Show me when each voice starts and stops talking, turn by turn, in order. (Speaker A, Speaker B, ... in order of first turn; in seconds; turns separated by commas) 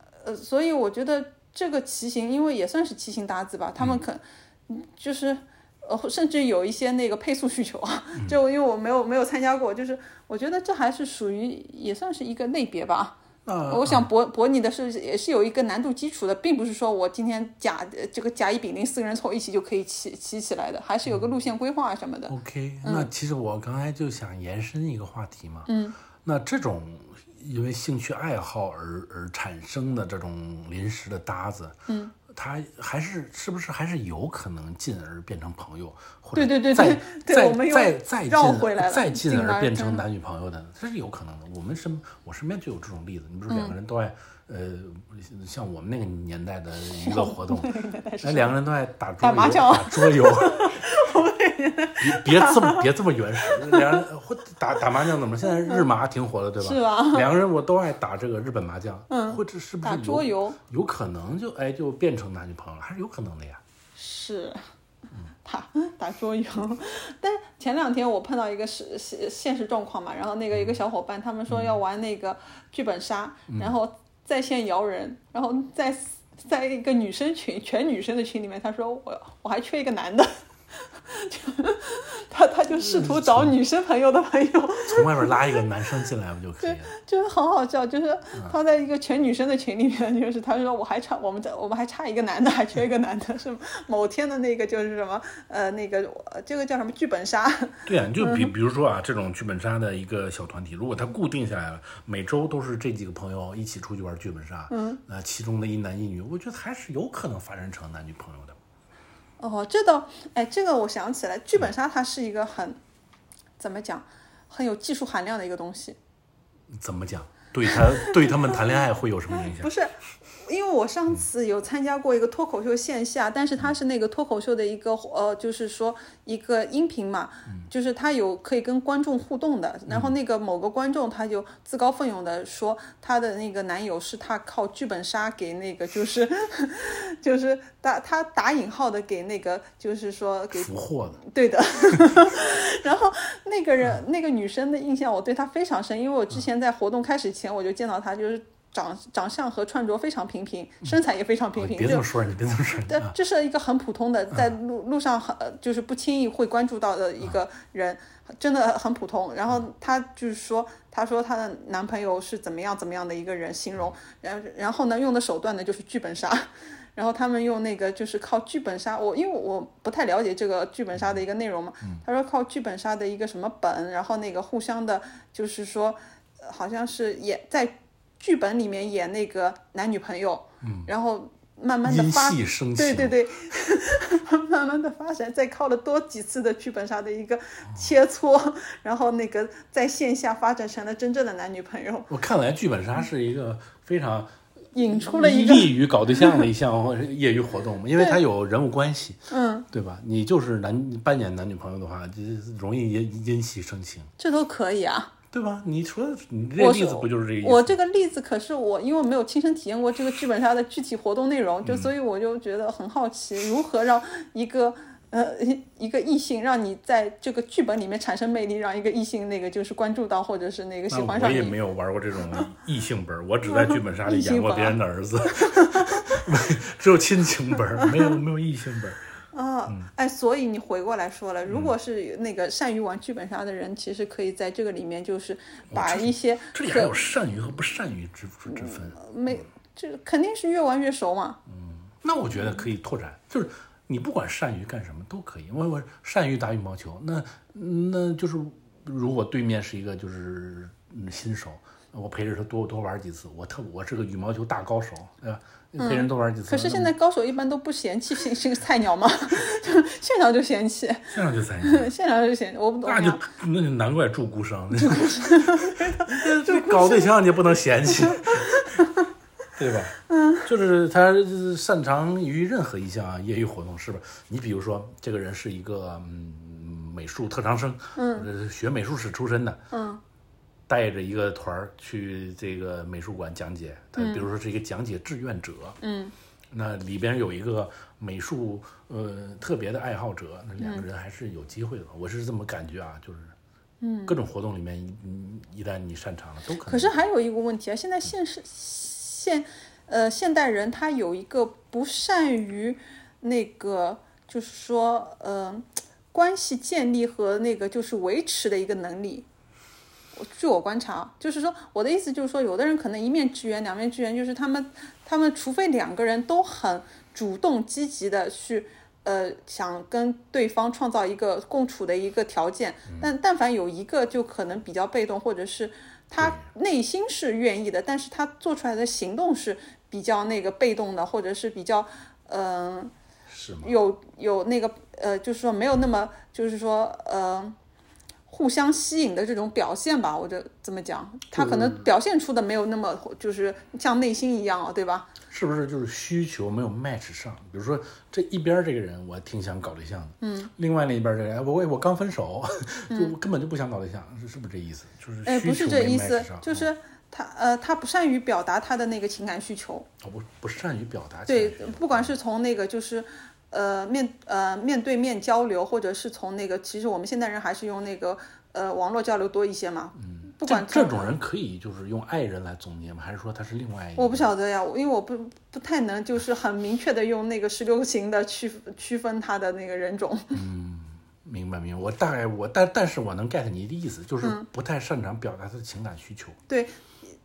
Speaker A: 0.2-23.1, Speaker B: 13.4-14.1, Speaker B: 22.3-25.7, Speaker A: 25.7-26.0, Speaker B: 26.2-31.8, Speaker A: 31.9-32.1, Speaker B: 32.3-50.8, Speaker A: 36.4-40.0, Speaker A: 43.5-43.7, Speaker A: 46.8-48.6, Speaker A: 49.2-52.9, Speaker B: 52.0-63.6, Speaker A: 53.4-54.0, Speaker A: 55.5-55.8, Speaker A: 56.6-57.3, Speaker A: 59.1-60.6, Speaker A: 64.0-64.6, Speaker A: 65.4-85.6, Speaker B: 71.5-71.8, Speaker B: 73.5-73.7, Speaker B: 82.8-83.5, Speaker B: 84.9-87.0, Speaker A: 86.6-98.5, Speaker B: 97.9-108.6, Speaker A: 104.7-105.0, Speaker A: 109.4-112.8, Speaker A: 113.6-116.0, Speaker B: 116.7-119.7, Speaker A: 117.7-118.5, Speaker A: 119.3-152.1, Speaker B: 140.5-141.2, Speaker B: 141.9-142.2, Speaker B: 151.6-153.1, Speaker A: 152.9-192.1, Speaker B: 180.6-180.9, Speaker B: 181.8-183.2, Speaker B: 192.1-194.3, Speaker A: 194.7-196.5, Speaker B: 194.9-204.1, Speaker A: 198.0-198.2, Speaker A: 199.3-199.7, Speaker A: 204.2-205.1, Speaker B: 205.3-207.8, Speaker A: 206.6-221.6, Speaker B: 211.7-211.9, Speaker B: 220.9-229.0, Speaker A: 223.5-226.2, Speaker A: 229.3-236.9, Speaker B: 231.5-231.7, Speaker B: 235.7-239.0, Speaker A: 238.5-241.4, Speaker B: 241.5-256.9, Speaker A: 255.8-263.2, Speaker B: 261.1-261.9, Speaker B: 262.9-268.7, Speaker A: 264.8-267.1, Speaker A: 268.3-269.1, Speaker B: 269.6-279.6, Speaker A: 270.1-270.5, Speaker A: 277.9-278.3, Speaker A: 279.7-280.0, Speaker B: 280.7-285.8, Speaker A: 284.0-284.3, Speaker A: 285.8-286.1, Speaker B: 286.5-293.3, Speaker A: 290.6-290.9, Speaker A: 293.8-294.2, Speaker B: 294.1-296.9, Speaker A: 296.7-309.3, Speaker A: 310.2-332.9, Speaker B: 326.2-326.4, Speaker B: 333.3-333.7, Speaker A: 333.6-337.6, Speaker A: 338.3-345.1, Speaker B: 341.3-341.9, Speaker B: 345.3-356.7, Speaker A: 350.2-350.5, Speaker A: 352.9-353.1, Speaker A: 355.3-359.9, Speaker B: 360.0-362.2, Speaker A: 361.3-371.2, Speaker B: 370.0-374.3, Speaker A: 374.0-380.4, Speaker B: 380.3-386.4, Speaker A: 386.5-386.8